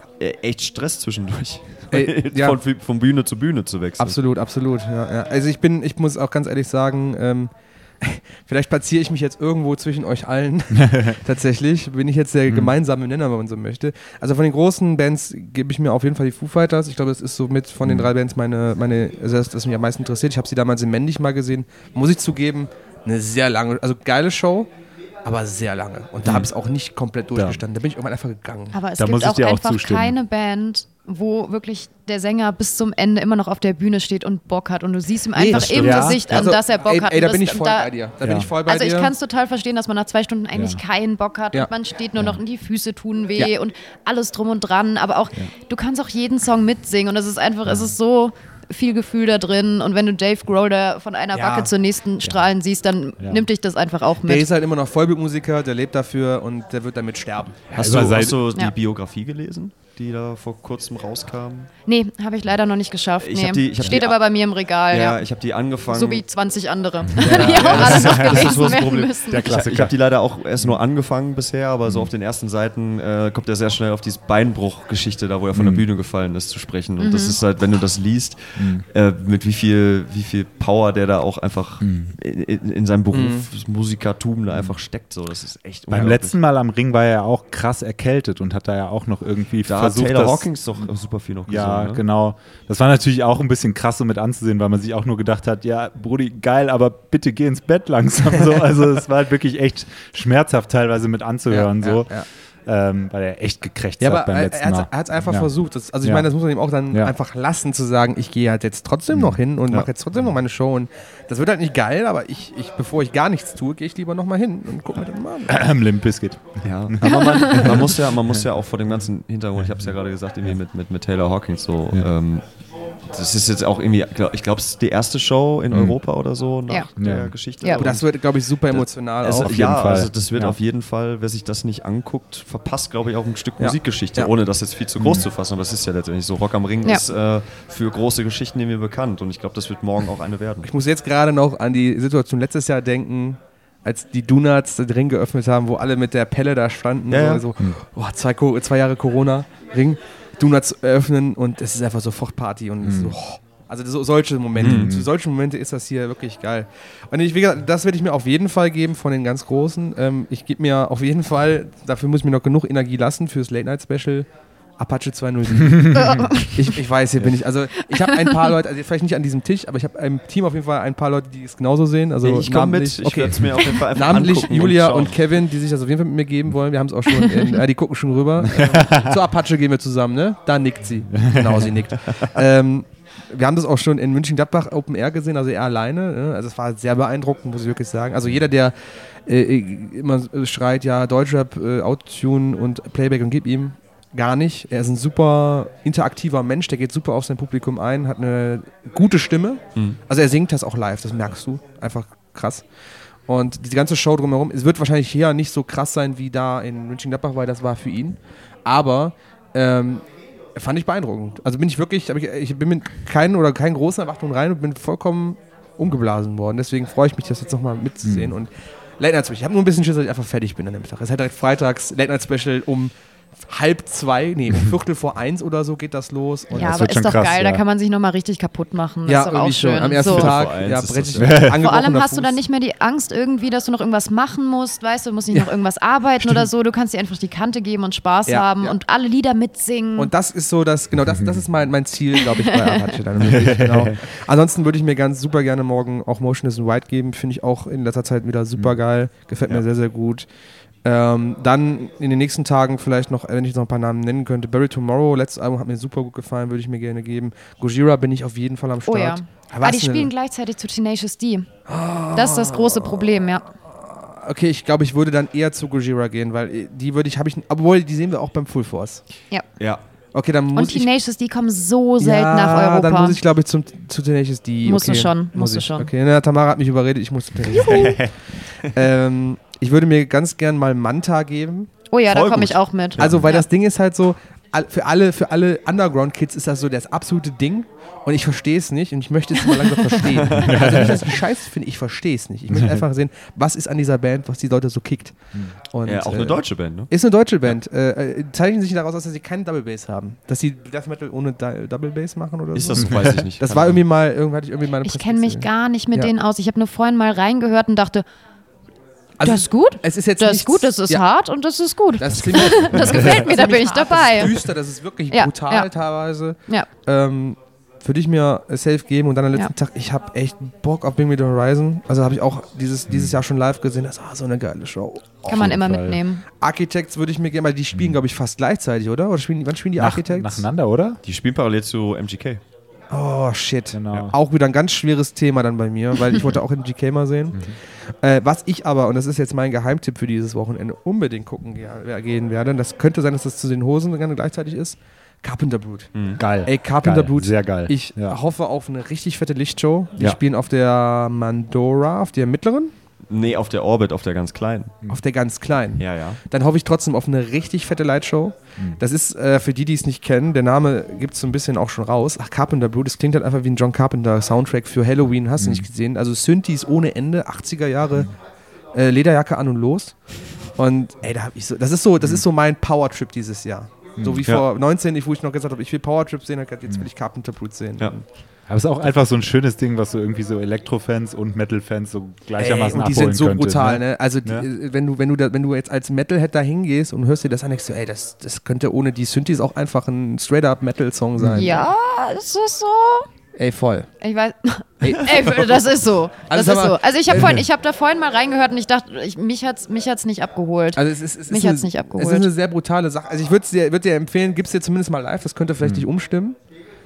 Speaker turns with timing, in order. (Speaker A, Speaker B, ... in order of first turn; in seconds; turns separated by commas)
Speaker A: 0.2-4.2, Speaker B: 1.9-2.6, Speaker B: 4.0-24.7, Speaker C: 10.8-11.1, Speaker C: 17.8-18.1, Speaker B: 25.2-28.8, Speaker C: 27.3-27.6, Speaker D: 28.7-37.9, Speaker C: 29.0-30.1, Speaker B: 35.3-39.1, Speaker C: 35.5-36.2, Speaker C: 38.2-38.5, Speaker D: 38.6-54.5, Speaker C: 40.5-40.8, Speaker C: 47.6-47.9, Speaker B: 51.3-51.7, Speaker C: 53.2-53.5, Speaker B: 54.2-57.8, Speaker C: 57.7-58.4, Speaker A: 57.7-61.7, Speaker D: 61.9-65.2, Speaker A: 63.2-64.2, Speaker A: 64.9-66.2, Speaker D: 65.9-69.7, Speaker A: 67.2-86.4, Speaker B: 67.2-68.1, Speaker C: 67.3-70.0, Speaker C: 71.8-72.1, Speaker C: 75.5-75.8, Speaker D: 77.0-77.4, Speaker C: 78.6-78.8, Speaker C: 81.8-82.1, Speaker B: 83.1-83.5, Speaker C: 85.9-90.5, Speaker A: 89.7-92.0, Speaker C: 91.5-102.1, Speaker B: 101.5-102.3, Speaker C: 102.7-105.5, Speaker B: 104.0-115.6, Speaker C: 106.0-106.3, Speaker C: 109.1-109.8, Speaker C: 115.5-118.4, Speaker A: 116.6-122.4, Speaker D: 117.0-117.8, Speaker A: 123.1-128.2, Speaker C: 125.7-126.0, Speaker C: 127.0-127.3, Speaker B: 127.7-129.6, Speaker A: 128.7-140.7, Speaker C: 129.4-130.6, Speaker B: 133.6-134.3, Speaker C: 135.0-135.3, Speaker B: 140.6-164.3, Speaker A: 147.1-147.5, Speaker C: 152.8-153.2, Speaker C: 154.6-155.1, Speaker A: 154.6-154.9, Speaker B: 164.8-188.7, Speaker C: 165.7-166.3, Speaker D: 165.9-166.8, Speaker D: 168.1-168.5, Speaker A: 172.2-175.2, Speaker C: 178.5-179.1, Speaker C: 181.1-181.7, Speaker B: 189.2-202.7, Speaker B: 203.2-226.8, Speaker C: 218.0-218.3, Speaker C: 226.5-227.6, Speaker D: 226.6-230.3, Speaker B: 229.1-232.4, Speaker A: 230.0-231.5, Speaker C: 231.2-231.6, Speaker D: 231.5-240.1, Speaker B: 238.2-238.8, Speaker B: 240.0-250.3, Speaker C: 241.1-241.4, Speaker D: 242.3-243.0, Speaker C: 243.2-244.0, Speaker B: 250.8-260.1, Speaker D: 258.9-261.5, Speaker B: 261.7-269.0, Speaker D: 262.1-263.5, Speaker B: 270.1-270.9, Speaker D: 270.5-273.2, Speaker B: 272.0-281.7, Speaker D: 274.6-275.9, Speaker D: 277.5-278.0, Speaker D: 281.9-283.4, Speaker A: 282.1-283.2, Speaker B: 283.0-295.1, Speaker A: 290.2-290.8, Speaker C: 290.4-291.0, Speaker B: 295.7-306.1, Speaker A: 295.8-296.9, Speaker A: 302.5-303.8, Speaker C: 302.9-303.2, Speaker D: 304.8-308.0, Speaker B: 309.2-311.0, Speaker D: 309.2-314.4, Speaker B: 312.0-325.6, Speaker A: 312.5-313.1, Speaker D: 315.1-315.7, Speaker C: 322.9-323.2, Speaker D: 325.2-326.2, Speaker C: 325.3-326.0, Speaker B: 326.4-330.4, Speaker C: 329.8-331.0, Speaker A: 331.0-332.4, Speaker B: 332.9-352.7, Speaker C: 333.7-334.1, Speaker A: 345.9-346.2, Speaker C: 346.2-348.2, Speaker A: 353.1-354.8, Speaker B: 354.9-368.1, Speaker A: 355.8-356.2, Speaker C: 365.4-365.6, Speaker B: 368.7-369.9, Speaker B: 370.5-377.9, Speaker C: 374.0-374.2, Speaker C: 378.5-384.5, Speaker B: 382.4-391.7, Speaker C: 391.2-391.5, Speaker D: 391.3-393.1, Speaker B: 393.4-393.9, Speaker D: 394.0-402.3, Speaker B: 394.8-395.7, Speaker B: 396.3-397.4, Speaker B: 400.7-406.4